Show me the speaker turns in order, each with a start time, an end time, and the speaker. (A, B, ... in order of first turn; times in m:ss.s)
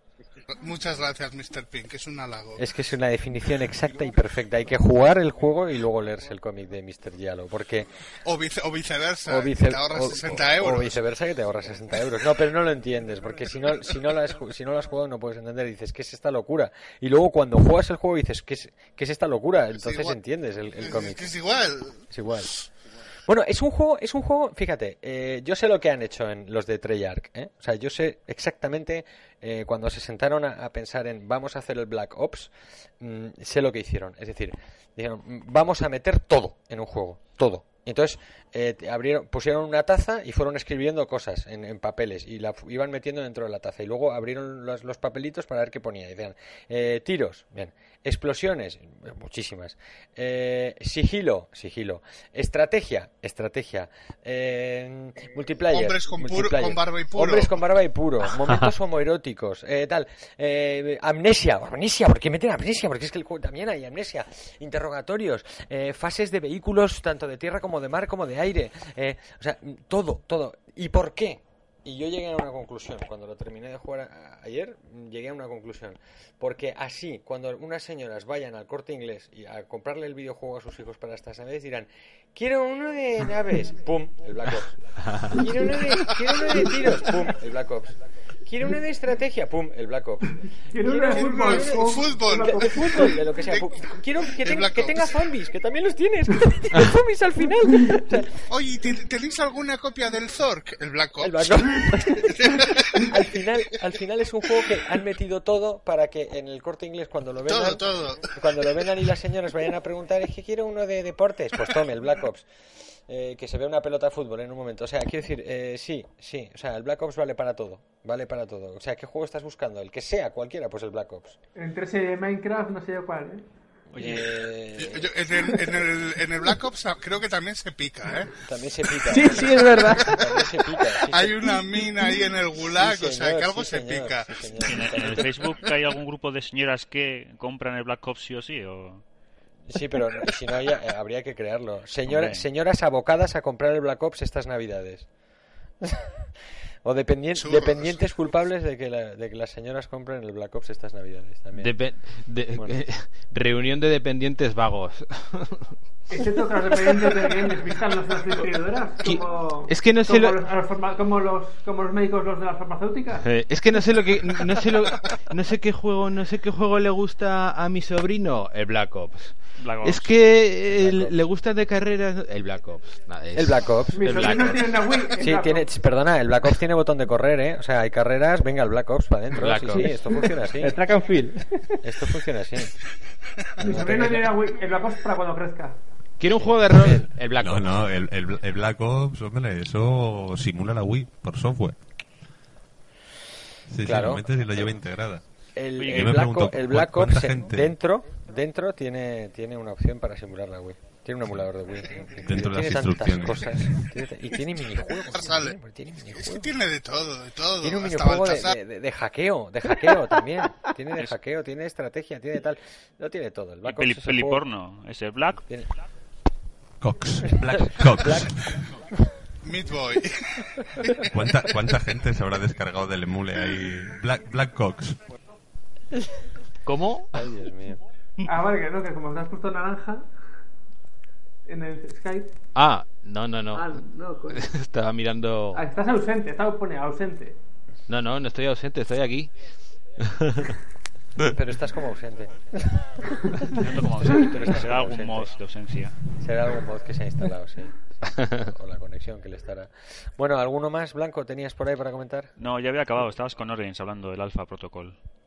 0:00.5-0:02.6 A
0:02.6-0:07.9 B
0:08.2-0:11.0 A
0:09.3-0:21.4 B
0:19.8-0:20.2 A
0:20.7-0:22.1 A
0:22.1-0:22.7 B
0:23.2-1:38.5 B
0:55.7-0:57.6 A
1:25.0-1:25.4 C
1:30.7-1:33.2 D
1:31.0-1:35.2 A
1:38.5-1:43.3 A
1:41.2-2:01.4 B
1:47.5-1:48.4 A
2:01.6-2:03.4 D
2:03.9-2:04.3 E
2:03.9-2:05.8 B
2:04.8-2:08.4 A
2:08.4-2:11.5 B
2:09.1-2:10.2 D
2:09.1-2:10.2 F
2:11.1-2:15.2 A
2:12.8-2:15.3 B
2:14.6-2:19.0 E
2:19.7-2:25.1 B
2:22.0-2:22.5 E
2:25.8-2:26.1 B
2:26.8-2:31.7 B
2:27.4-2:28.3 A
2:31.5-2:35.7 C
2:36.1-2:43.2 D
2:39.0-2:40.4 C
2:43.2-2:54.8 C
2:49.5-2:50.1 E
2:50.7-2:51.1 B
2:53.3-2:54.3 B
2:53.9-2:55.7 D
2:55.1-3:00.8 B
2:59.4-3:00.3 C
2:59.7-3:01.8 F
3:01.8-3:02.8 B
3:03.6-3:04.3 B
3:03.6-3:05.8 D
3:06.2-3:07.8 C
3:06.4-3:07.0 B
3:07.4-3:11.8 G
3:13.7-3:15.2 G
3:13.8-3:14.6 B
3:15.5-3:26.5 B
3:15.8-3:16.1 E
3:15.8-3:17.8 G
3:22.2-3:23.8 G
3:25.0-3:28.6 A
3:27.6-3:34.4 B
3:33.6-3:35.4 E
3:36.8-3:38.7 G
3:37.5-3:38.4 B
3:39.4-3:41.0 A
3:41.1-3:45.0 G
3:46.6-3:47.2 C
3:47.1-3:47.8 B
3:48.2-3:50.0 D
3:51.5-3:52.3 D
3:52.5-3:55.6 C
3:53.5-3:54.5 D
3:55.5-3:57.4 D
3:57.9-3:59.4 C
4:00.0-4:00.5 C
4:01.2-4:02.7 B
4:03.6-4:06.1 E
4:03.9-4:05.3 B
4:06.2-4:12.3 B
4:12.4-4:15.0 E